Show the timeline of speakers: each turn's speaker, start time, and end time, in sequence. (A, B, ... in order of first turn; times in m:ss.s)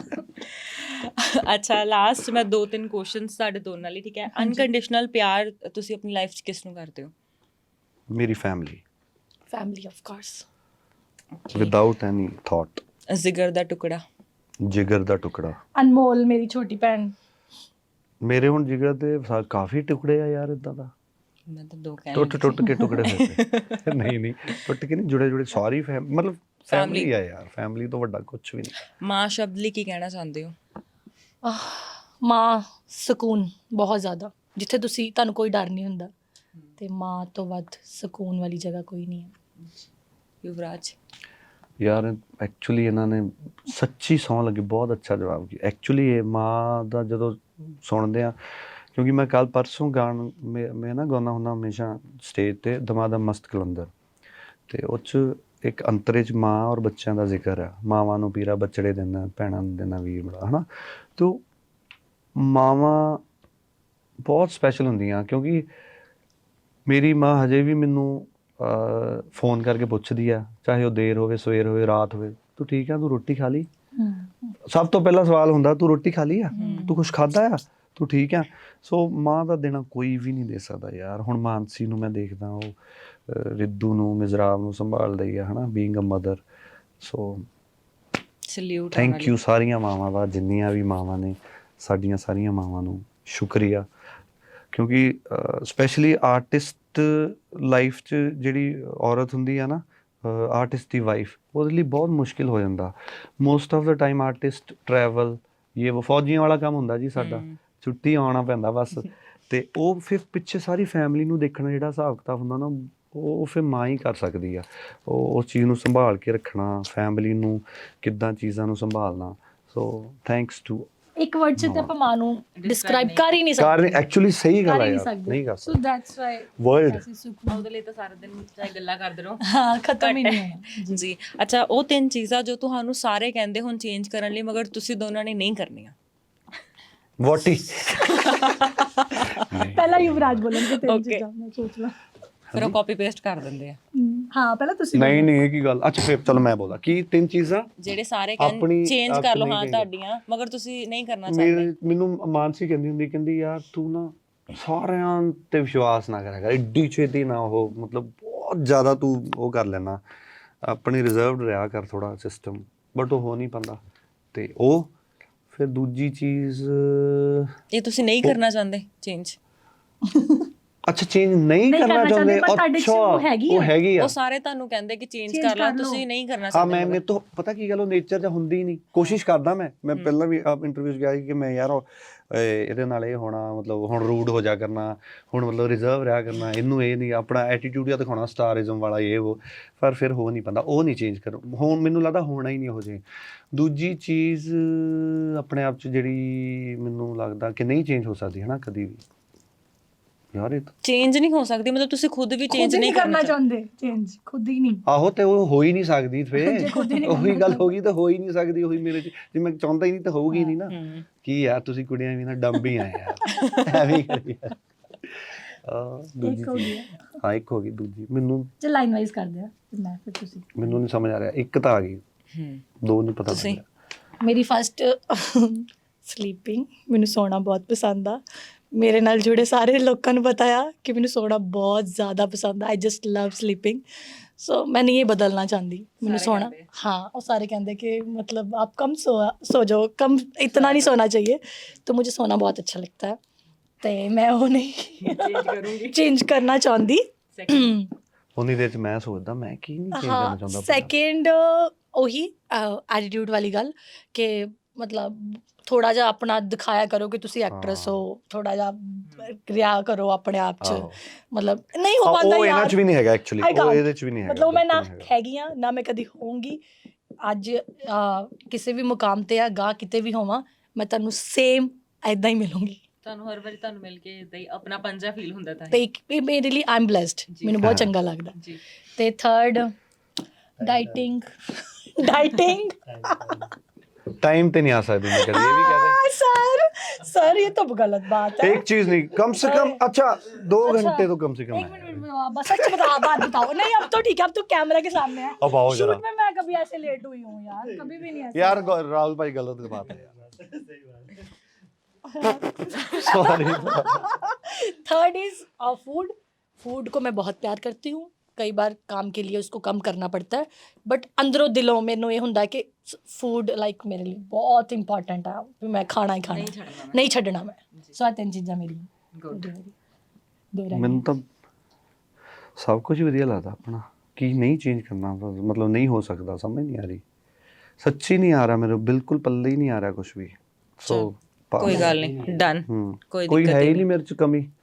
0:00.5-0:07.1 A
0:04.3-0:04.6 B
0:08.1-0:08.8 C
0:09.5-0:10.4 B
0:11.4-0:11.8 A
0:11.5-0:12.8 C
0:13.1-0:14.0 A
0:14.6-0:15.6 C
0:15.7-0:17.1 B
0:18.2-0:20.9 C
0:21.5-0:24.1 A
0:22.1-0:28.8 C
0:26.7-0:27.1 A
0:29.0-0:30.5 A
0:31.4-0:36.1 B
0:36.8-0:39.3 B
0:40.4-0:40.9 A
0:41.8-0:48.4 C
0:48.9-0:53.9 C
0:54.7-1:01.4 C
1:02.3-1:03.2 C
1:04.2-1:05.7 C
1:06.9-1:13.7 C
1:13.9-1:14.6 B
1:14.6-1:26.4 C
1:16.5-1:17.0 B
1:16.5-1:17.0 A
1:27.0-1:27.5 C
1:28.5-1:29.4 A
1:28.9-1:33.8 C
1:34.7-2:00.9 C
1:47.2-1:47.6 A
2:01.2-2:04.0 B
2:01.6-2:01.9 C
2:02.6-2:03.4 A
2:03.6-2:05.8 C
2:04.6-2:07.6 B
2:06.6-2:07.0 C
2:07.5-2:09.4 A
2:09.4-2:11.0 B
2:10.0-2:15.9 A
2:17.2-2:18.2 C
2:18.0-2:19.5 A
2:19.2-2:20.4 C
2:19.6-2:22.0 B
2:20.5-2:21.2 A
2:22.5-2:23.8 A
2:23.9-2:25.3 B
2:24.9-2:27.7 C
2:27.8-2:31.7 A
2:28.4-2:29.9 C
2:31.3-2:40.0 C
2:40.6-2:43.8 C
2:44.3-2:44.9 C
2:45.5-2:47.5 C
2:47.7-2:49.4 A
2:50.0-2:50.5 B
2:50.9-2:54.1 C
2:51.7-2:53.7 B
2:54.0-2:57.0 A
2:55.3-2:56.0 B
2:56.5-3:19.0 C
3:20.3-3:20.7 C
3:20.8-3:23.4 A
3:22.5-3:24.8 B
3:24.8-3:38.5 C
3:26.4-3:27.7 B
3:30.7-3:31.0 A
3:33.3-3:33.7 A
3:33.3-3:33.8 B
3:36.2-3:37.0 B
3:38.6-3:40.8 B
3:40.5-3:42.0 C
3:42.3-3:42.6 A
3:42.8-3:43.6 C
3:43.3-3:43.6 A
3:44.2-4:03.2 B
3:56.0-3:56.7 A
4:00.5-4:00.9 A
4:03.8-4:07.9 B
4:05.0-4:06.0 A
4:07.3-4:07.7 A
4:08.4-4:10.9 C
4:09.9-4:22.8 B
4:17.5-4:18.0 C
4:20.6-4:21.0 C
4:22.0-4:25.1 C
4:23.4-4:26.6 B
4:27.2-4:32.8 B
4:33.0-4:35.8 A
4:35.7-4:38.4 B
4:37.3-4:37.8 A
4:37.6-4:37.9 C
4:39.0-4:39.7 B
4:40.6-4:43.5 B
4:44.1-4:46.0 C
4:45.1-4:48.7 B
4:48.4-4:53.3 C
4:49.3-4:49.8 B
4:50.6-4:58.7 B
4:55.4-4:56.0 C
4:58.3-5:00.3 C
5:02.1-5:19.7 B
5:02.6-5:04.1 C
5:16.3-5:17.0 A
5:19.1-5:19.5 A
5:20.5-5:21.0 B
5:20.7-5:21.3 C
5:22.6-5:27.0 C
5:27.8-5:32.0 C
5:30.9-5:33.8 A
5:31.6-5:32.0 B
5:32.6-5:34.5 C